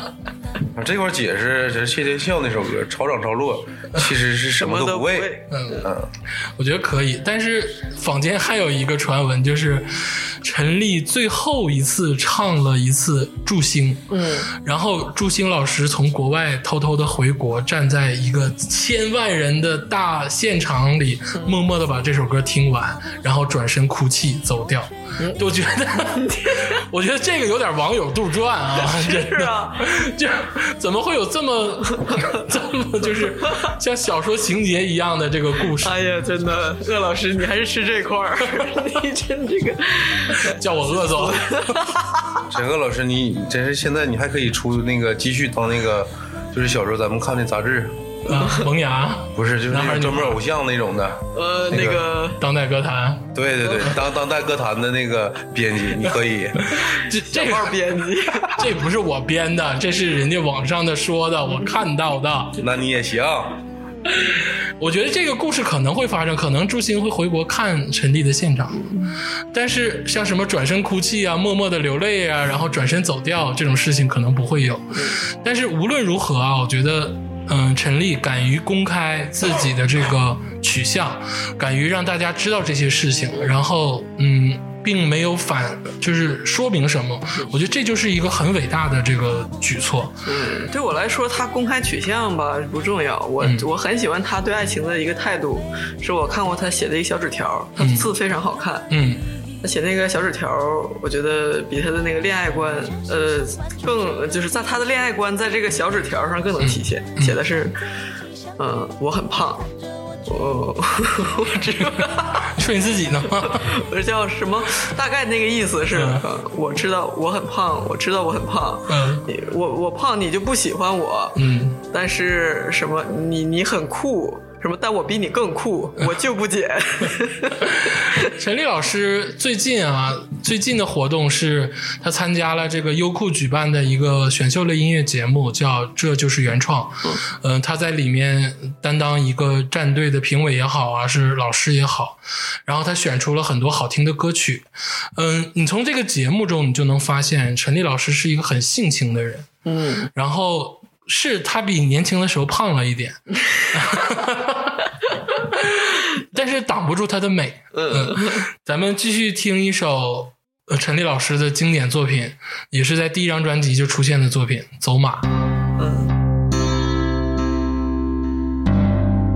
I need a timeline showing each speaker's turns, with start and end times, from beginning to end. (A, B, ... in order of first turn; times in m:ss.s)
0:00.8-0:06.1 A
0:04.6-0:05.9 B
0:05.5-0:05.9 C
0:06.6-0:35.9 C
0:14.1-0:14.5 B
0:26.2-0:26.8 B
0:28.7-0:29.9 B
0:32.0-0:32.4 B
0:33.4-0:33.7 B
0:35.8-0:42.4 B
0:40.5-0:41.8 C
0:42.5-0:48.0 A
0:48.3-0:50.4 C
0:48.3-0:48.6 B
0:49.4-0:52.0 A
0:51.3-0:52.4 B
0:52.4-0:53.3 C
0:53.4-0:56.6 A
0:56.6-1:02.6 C
0:56.8-0:58.7 B
1:02.6-1:03.6 A
1:04.2-1:08.8 C
1:08.7-1:09.1 B
1:09.5-1:30.2 C
1:14.9-1:15.2 B
1:30.3-1:38.9 B
1:37.8-1:38.1 C
1:38.9-1:39.2 C
1:39.6-1:47.8 B
1:46.6-1:47.4 C
1:48.6-1:49.7 B
1:50.3-1:52.5 B
1:51.8-1:53.7 C
1:53.4-2:08.3 B
1:55.9-1:56.3 C
1:58.9-1:59.2 C
2:01.4-2:01.8 C
2:07.8-2:29.5 C
2:29.6-2:30.1 B
2:30.1-2:45.3 C
2:33.4-2:34.0 B
2:37.7-2:38.5 B
2:45.8-2:46.1 B